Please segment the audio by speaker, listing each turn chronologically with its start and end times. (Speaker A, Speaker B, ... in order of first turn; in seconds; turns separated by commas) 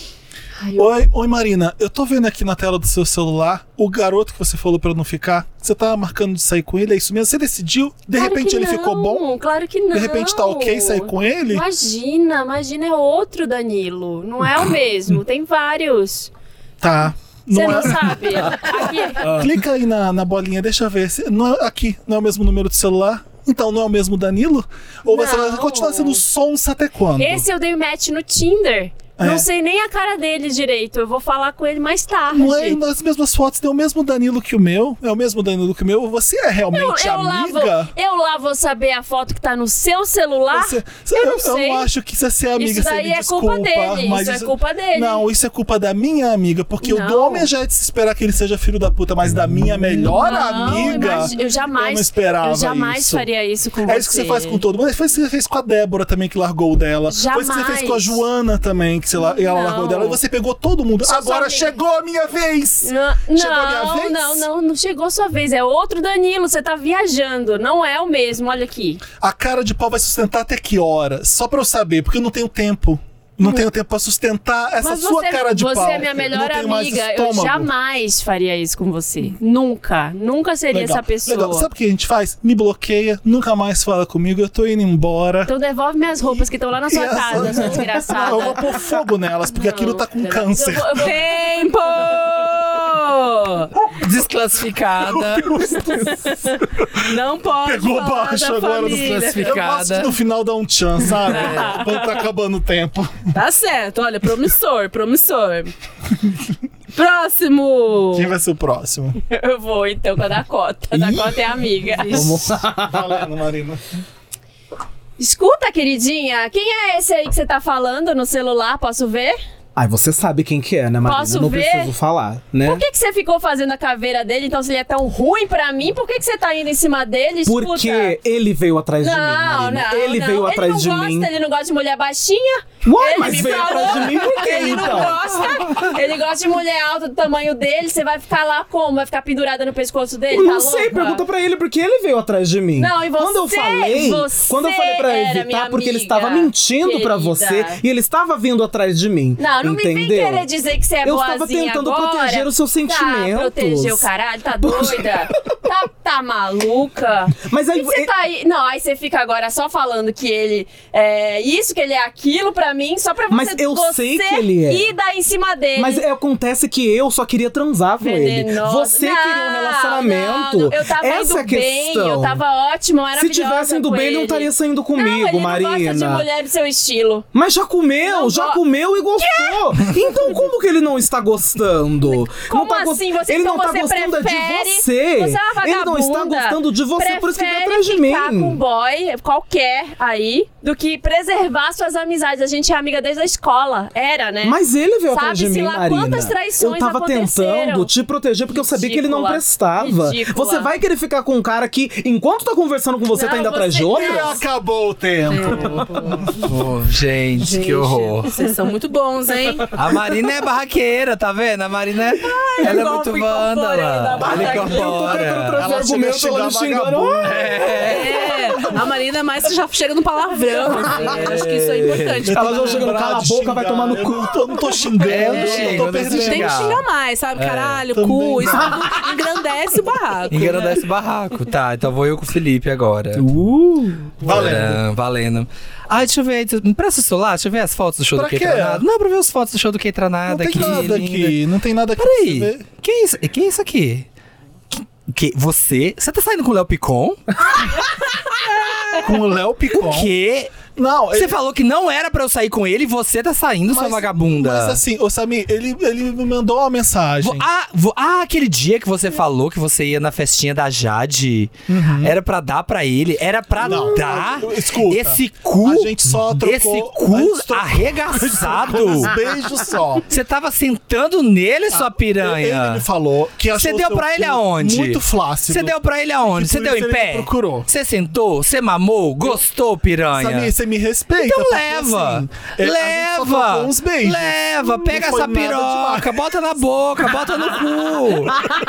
Speaker A: 0.6-1.1, Speaker B: 0.8-9.3, Speaker A: 8.1-16.3, Speaker B: 9.9-11.6, Speaker B: 16.8-27.4, Speaker A: 17.5-19.3, Speaker A: 25.1-26.2, Speaker A: 27.2-32.8, Speaker B: 29.2-29.5, Speaker B: 32.3-37.9, Speaker A: 36.7-41.9, Speaker B: 40.5-53.3, Speaker A: 42.5-45.2, Speaker A: 46.8-47.5, Speaker A: 50.1-54.6, Speaker B: 53.8-64.5, Speaker A: 57.1-58.2, Speaker A: 59.2-60.2, Speaker A: 61.0-61.7, Speaker A: 62.8-69.0, Speaker B: 69.2-77.7, Speaker A: 74.8-81.7, Speaker B: 80.7-85.5, Speaker A: 85.5-88.9, Speaker B: 86.9-91.1, Speaker A: 89.5-91.2, Speaker C: 90.9-93.7, Speaker D: 93.9-95.5, Speaker B: 95.1-96.1, Speaker C: 95.8-99.6, Speaker B: 97.6-103.3, Speaker D: 98.8-100.1, Speaker D: 101.3-101.8, Speaker C: 101.5-101.7, Speaker C: 103.3-105.7, Speaker C: 106.9-108.3, Speaker B: 108.1-109.2, Speaker A: 109.3-112.3, Speaker E: 110.9-111.4, Speaker C: 112.0-112.4, Speaker E: 112.1-113.2, Speaker B: 112.8-113.8, Speaker A: 115.2-119.4, Speaker E: 119.8-122.8, Speaker A: 121.0-121.9, Speaker A: 122.6-128.2, Speaker E: 127.5-131.3, Speaker A: 129.0-141.2, Speaker E: 132.8-135.2, Speaker C: 133.2-135.1, Speaker E: 140.3-150.5, Speaker A: 142.8-147.8, Speaker A: 149.4-166.0, Speaker E: 151.0-154.1, Speaker E: 154.6-155.1, Speaker E: 157.4-158.1, Speaker E: 163.3-164.9, Speaker E: 165.8-172.4, Speaker A: 168.0-177.3, Speaker E: 173.2-176.2, Speaker E: 177.3-188.6, Speaker A: 178.0-178.6, Speaker A: 179.2-180.4, Speaker A: 182.0-197.9, Speaker E: 194.4-204.4, Speaker A: 198.5-200.7, Speaker A: 203.1-204.4, Speaker B: 203.9-206.3, Speaker C: 205.3-206.5, Speaker D: 206.4-208.3, Speaker C: 207.4-209.8, Speaker D: 209.7-215.6, Speaker C: 212.2-214.5, Speaker A: 214.0-215.2, Speaker E: 214.2-217.3, Speaker B: 215.6-217.7, Speaker D: 217.2-218.7, Speaker C: 217.8-222.9, Speaker D: 220.9-222.3, Speaker B: 222.2-226.8, Speaker E: 222.3-224.3, Speaker D: 225.0-226.8, Speaker C: 225.1-230.8, Speaker D: 227.3-227.8, Speaker B: 227.9-228.9, Speaker D: 230.3-233.2, Speaker E: 233.2-234.2, Speaker B: 234.2-234.8, Speaker D: 234.2-241.4, Speaker B: 238.1-238.8, Speaker B: 240.3-242.6, Speaker D: 242.0-244.1, Speaker D: 244.7-247.2, Speaker C: 248.5-249.0, Speaker B: 249.0-250.1, Speaker D: 249.7-250.6, Speaker B: 250.8-251.4, Speaker D: 251.1-254.8, Speaker B: 253.7-257.5, Speaker D: 257.2-269.1, Speaker B: 261.7-262.1, Speaker B: 263.6-270.1, Speaker D: 270.1-272.8, Speaker B: 271.7-275.8, Speaker D: 273.5-280.5, Speaker B: 276.3-277.7, Speaker B: 280.1-286.2, Speaker D: 281.2-288.5